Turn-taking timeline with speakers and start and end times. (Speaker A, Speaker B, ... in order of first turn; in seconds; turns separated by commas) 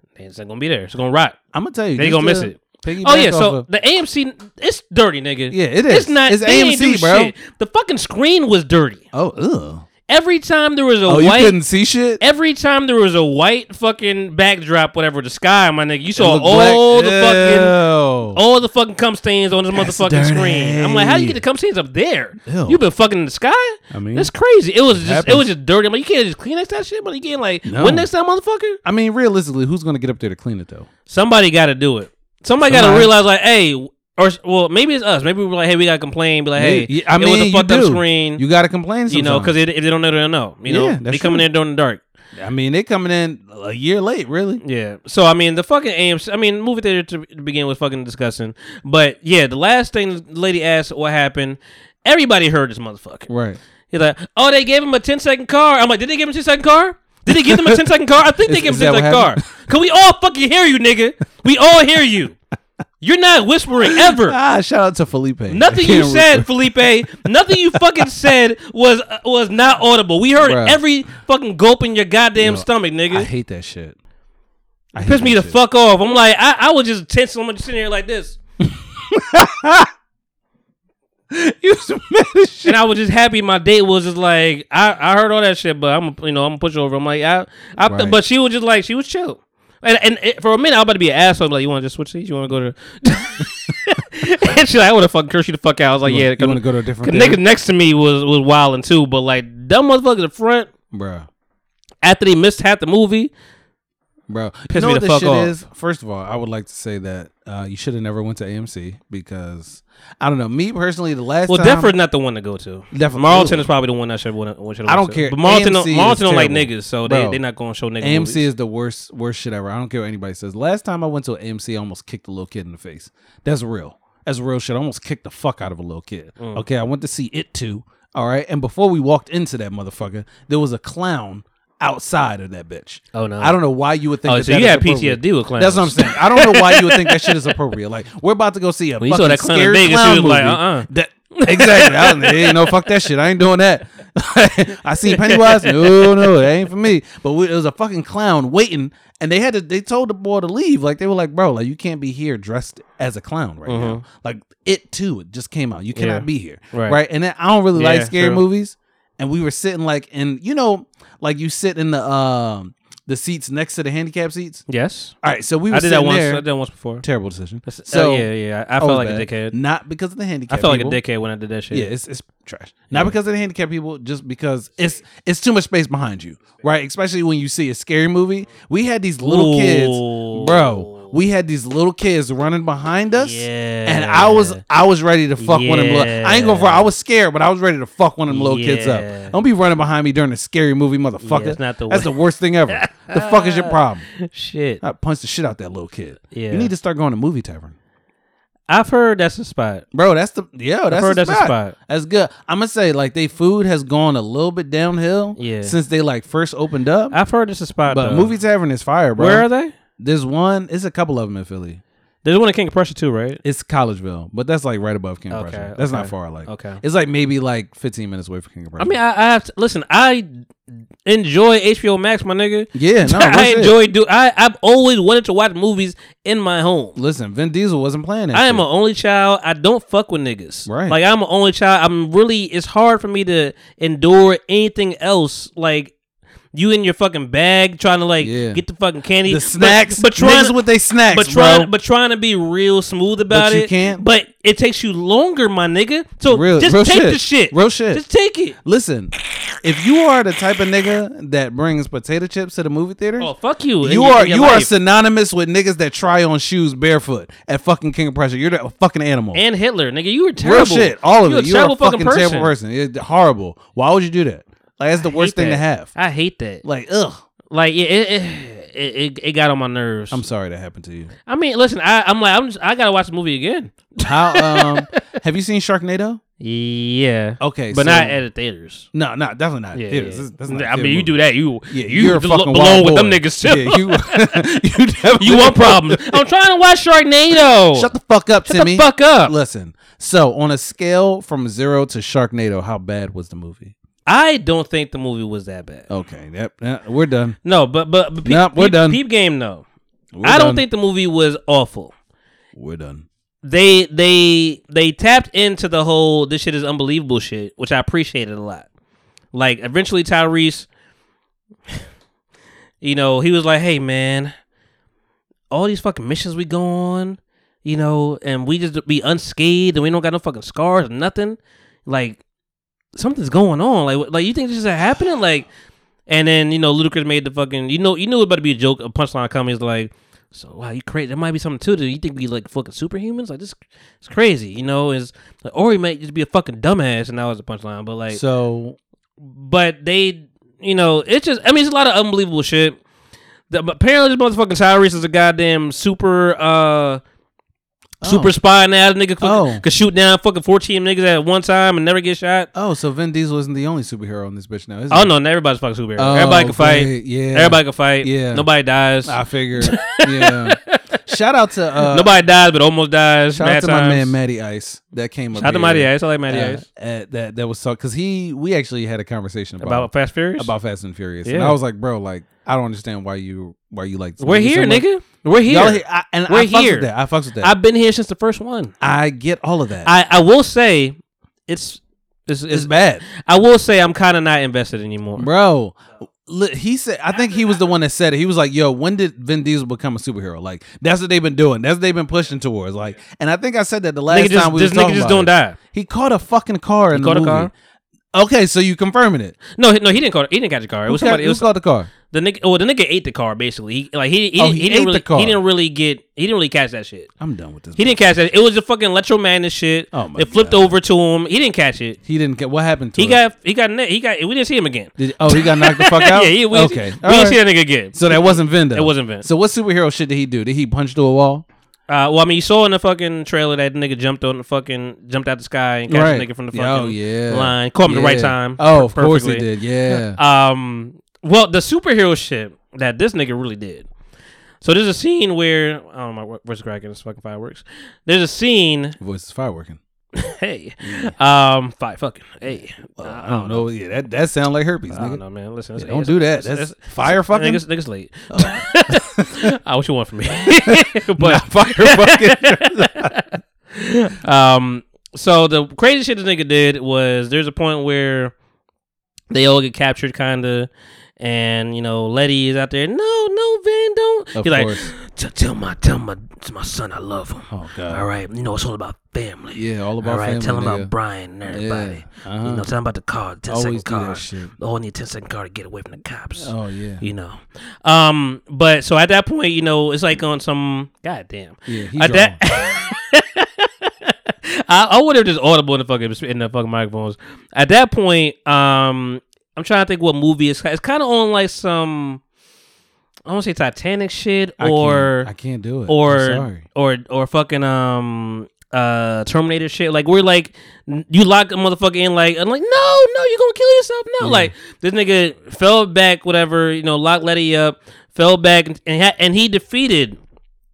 Speaker A: 0.1-1.4, Speaker B: 1.5-3.6, Speaker A: 1.9-9.0, Speaker B: 5.5-7.3, Speaker B: 9.1-9.8, Speaker A: 10.1-11.6, Speaker B: 11.1-12.2, Speaker A: 12.2-17.8, Speaker B: 16.1-18.4, Speaker A: 18.3-28.8, Speaker B: 19.7-21.4, Speaker B: 22.4-22.8, Speaker B: 23.9-24.3, Speaker B: 24.9-25.5, Speaker B: 27.6-28.1, Speaker B: 28.8-30.9, Speaker A: 31.1-38.4, Speaker B: 32.7-33.1, Speaker B: 36.5-39.5, Speaker A: 39.1-42.0, Speaker B: 40.7-41.4, Speaker B: 42.4-44.6, Speaker A: 44.6-53.3, Speaker B: 53.3-53.6, Speaker A: 53.9-62.4, Speaker B: 57.3-57.8, Speaker B: 58.5-59.5, Speaker A: 63.0-64.4, Speaker B: 63.9-68.0, Speaker A: 65.5-73.3, Speaker B: 70.4-70.8, Speaker B: 72.3-74.0, Speaker B: 74.9-75.6, Speaker A: 75.0-78.4, Speaker B: 78.6-79.9, Speaker B: 81.3-82.8, Speaker A: 82.6-100.7, Speaker B: 87.8-88.2, Speaker B: 96.0-97.4, Speaker B: 100.9-101.3, Speaker A: 102.0-103.3, Speaker B: 104.3-111.9, Speaker A: 104.7-105.5, Speaker A: 111.5-118.5, Speaker B: 112.9-113.7, Speaker B: 114.8-117.4, Speaker B: 118.0-164.7, Speaker A: 126.4-126.6, Speaker A: 133.1-133.6, Speaker A: 134.2-137.5, Speaker A: 139.0-142.8, Speaker A: 145.1-146.4, Speaker A: 153.7-154.0, Speaker A: 155.9-157.0, Speaker A: 157.7-158.4, Speaker A: 164.7-165.1, Speaker B: 165.2-166.4, Speaker A: 165.7-167.0, Speaker B: 167.0-171.0, Speaker A: 167.7-169.6, Speaker A: 170.5-171.9, Speaker B: 171.7-194.1, Speaker A: 179.2-181.1, Speaker A: 183.2-184.6, Speaker A: 185.4-186.9, Speaker A: 188.3-189.3, Speaker A: 191.2-192.1, Speaker A: 192.7-194.8, Speaker B: 194.8-197.7, Speaker A: 196.3-196.7, Speaker A: 198.7-199.8, Speaker B: 199.9-207.2, Speaker A: 200.9-201.7, Speaker A: 205.4-205.7, Speaker A: 207.1-208.3, Speaker B: 207.9-209.4, Speaker A: 209.2-209.7, Speaker B: 210.0-211.8, Speaker A: 212.2-213.4, Speaker B: 213.4-219.0, Speaker A: 215.3-216.8, Speaker A: 218.8-220.3, Speaker A: 221.0-226.9, Speaker B: 222.7-223.8, Speaker B: 226.9-228.6, Speaker A: 228.3-235.9, Speaker B: 230.7-231.0, Speaker A: 236.5-248.6, Speaker B: 238.2-238.6, Speaker B: 239.2-241.7, Speaker B: 243.3-244.0, Speaker B: 246.3-248.0, Speaker B: 248.6-253.3, Speaker A: 253.2-254.7, Speaker B: 253.8-259.4, Speaker A: 259.3-262.5, Speaker B: 260.4-265.9, Speaker A: 265.0-266.6, Speaker B: 266.6-267.2, Speaker A: 267.5-270.2, Speaker B: 270.1-271.1, Speaker A: 271.3-274.8, Speaker B: 274.0-276.2, Speaker A: 276.4-278.9, Speaker B: 277.4-278.2, Speaker B: 278.9-286.2, Speaker A: 279.7-284.4, Speaker A: 285.2-287.9, Speaker B: 287.7-293.7, Speaker A: 288.4-289.3, Speaker A: 294.1-295.9, Speaker B: 295.9-297.4, Speaker A: 297.4-299.6, Speaker B: 298.2-299.0, Speaker B: 300.1-300.6, Speaker A: 300.2-301.9, Speaker B: 302.6-303.1, Speaker A: 303.4-308.6, Speaker A: 309.3-310.7, Speaker A: 312.8-314.3, Speaker A: 315.5-322.2, Speaker A: 322.9-325.5, Speaker A: 326.1-338.2, Speaker B: 338.1-338.8, Speaker A: 339.2-342.8, Speaker A: 343.5-347.0, Speaker B: 348.0-348.3, Speaker A: 348.0-352.5, Speaker B: 349.2-349.6, Speaker B: 352.5-355.1, Speaker A: 354.9-360.7, Speaker B: 356.0-358.4, Speaker B: 359.0-362.1, Speaker A: 361.8-364.1, Speaker B: 363.3-374.9, Speaker A: 365.3-366.6, Speaker A: 369.6-370.5, Speaker A: 371.2-371.6, Speaker A: 374.2-376.9, Speaker B: 375.4-377.5, Speaker A: 377.4-378.7, Speaker B: 378.8-379.9, Speaker A: 379.8-380.9, Speaker A: 381.5-385.3, Speaker B: 382.5-383.0, Speaker B: 385.1-397.5, Speaker A: 394.1-395.6, Speaker A: 396.9-397.5, Speaker B: 398.1-399.4, Speaker A: 399.5-401.5, Speaker B: 400.9-401.9, Speaker A: 402.1-407.1, Speaker B: 404.4-405.4, Speaker B: 407.2-408.0, Speaker A: 407.8-412.0, Speaker B: 409.9-410.7, Speaker B: 412.0-413.2, Speaker A: 413.0-419.2, Speaker B: 415.0-421.4, Speaker A: 421.9-433.9, Speaker B: 425.9-430.2, Speaker A: 434.6-439.0, Speaker B: 439.0-439.8, Speaker A: 440.1-443.6, Speaker B: 440.8-441.1, Speaker B: 443.0-445.2, Speaker A: 444.9-458.3, Speaker B: 445.8-447.6, Speaker B: 448.3-449.5, Speaker B: 450.4-453.1, Speaker A: 459.3-492.2, Speaker B: 464.3-464.9, Speaker B: 467.5-468.1, Speaker B: 469.5-470.9, Speaker B: 471.5-472.6, Speaker B: 473.5-474.5, Speaker B: 476.4-477.1, Speaker B: 481.7-482.4, Speaker A: 493.3-495.3, Speaker B: 494.6-496.6, Speaker A: 495.9-510.2, Speaker B: 504.2-504.5